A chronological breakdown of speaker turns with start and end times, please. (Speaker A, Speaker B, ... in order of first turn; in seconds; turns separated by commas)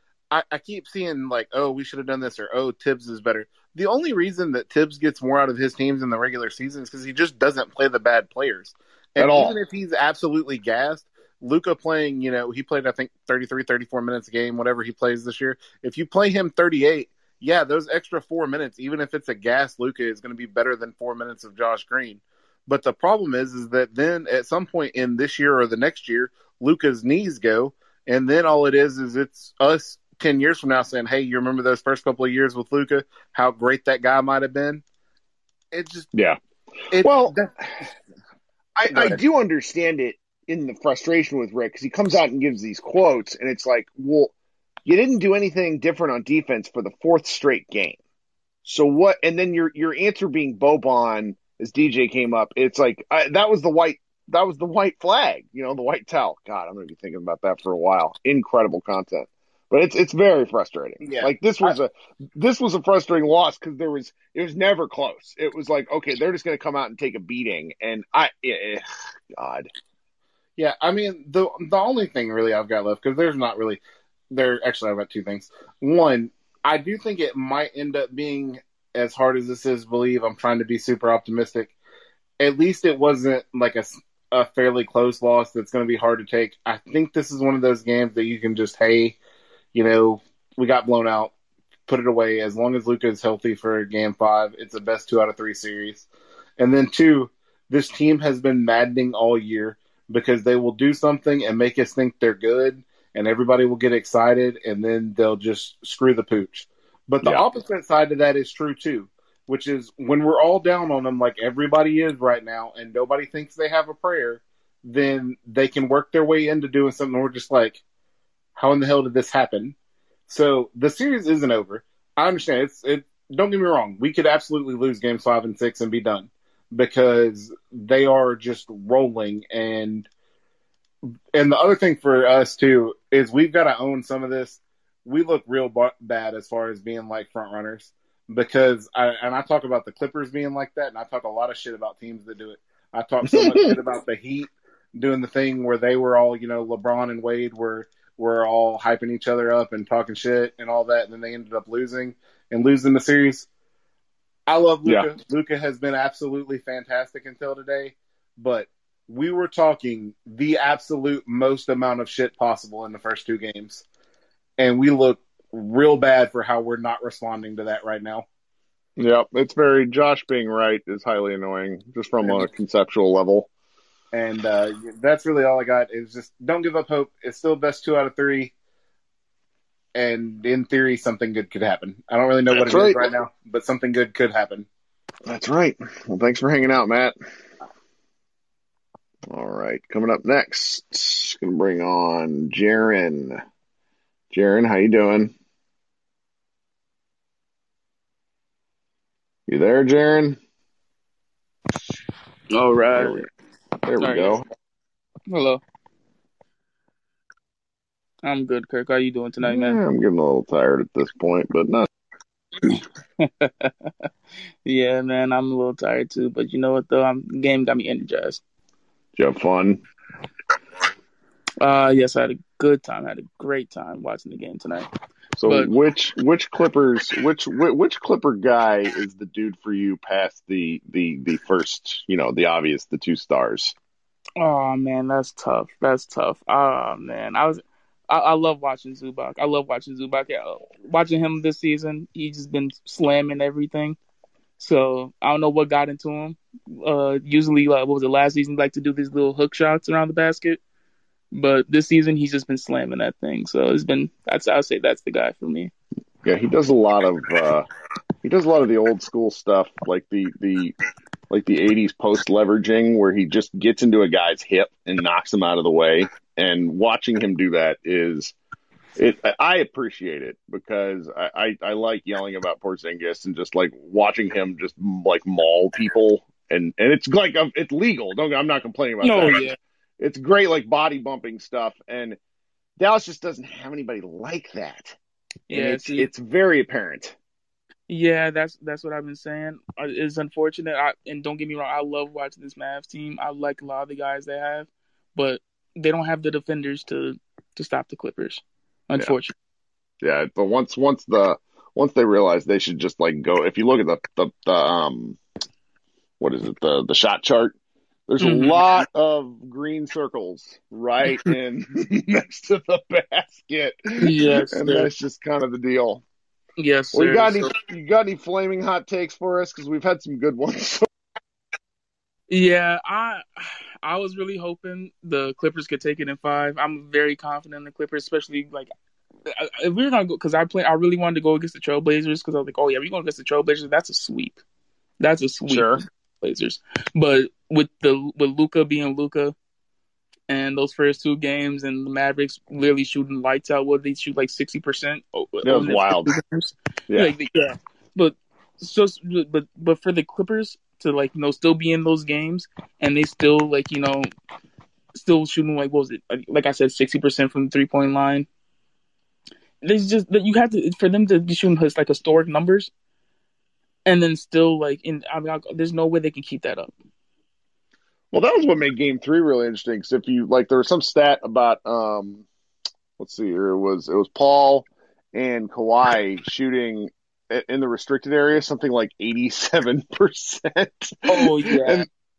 Speaker A: 0.3-34.8, Speaker B: 9.2-9.6, Speaker A: 35.7-36.1, Speaker B: 36.1-36.4, Speaker A: 36.9-37.6, Speaker B: 37.0-37.4, Speaker B: 38.8-44.3, Speaker A: 38.9-39.2, Speaker B: 44.9-48.0, Speaker B: 48.6-68.8, Speaker A: 61.0-61.7, Speaker B: 69.3-69.7, Speaker A: 70.6-81.7, Speaker A: 82.4-89.2, Speaker A: 89.7-91.3, Speaker A: 91.9-96.1, Speaker A: 96.6-117.8, Speaker A: 118.6-119.8, Speaker A: 120.3-130.1, Speaker A: 131.3-153.5, Speaker B: 143.2-143.7, Speaker A: 154.5-163.8, Speaker A: 164.6-168.2, Speaker B: 169.0-173.5, Speaker A: 174.1-178.5, Speaker A: 179.9-184.7, Speaker B: 182.5-183.1, Speaker B: 185.3-187.1, Speaker B: 189.3-193.4, Speaker B: 194.3-195.3, Speaker B: 199.5-200.4, Speaker C: 202.5-203.3, Speaker B: 202.9-203.3, Speaker B: 203.8-204.4, Speaker C: 204.0-204.4, Speaker C: 205.3-205.6, Speaker C: 208.2-209.8, Speaker B: 209.4-211.9, Speaker C: 212.7-213.7, Speaker C: 214.7-218.4, Speaker B: 219.2-219.8, Speaker C: 221.6-224.9, Speaker B: 225.4-233.8, Speaker C: 234.4-244.0, Speaker C: 244.6-250.6, Speaker C: 251.3-255.7, Speaker B: 256.2-257.7, Speaker B: 258.2-260.8, Speaker B: 261.3-268.3, Speaker B: 269.0-282.2, Speaker C: 279.0-279.6, Speaker B: 282.8-285.0, Speaker C: 285.5-286.1, Speaker B: 285.5-287.2, Speaker C: 287.9-299.3, Speaker B: 300.0-305.2, Speaker B: 306.2-307.6, Speaker B: 308.1-316.0, Speaker C: 308.2-308.6, Speaker C: 314.0-314.9, Speaker C: 316.6-317.6, Speaker B: 316.9-320.9, Speaker C: 322.3-323.2, Speaker C: 323.8-328.7, Speaker C: 329.3-334.4, Speaker C: 335.0-339.4, Speaker B: 335.5-335.8, Speaker C: 340.3-354.1, Speaker B: 345.4-346.1, Speaker B: 346.9-347.1, Speaker C: 354.9-358.3, Speaker C: 359.6-362.7, Speaker C: 363.9-366.7, Speaker B: 368.1-372.3, Speaker B: 373.0-381.9, Speaker C: 381.1-381.9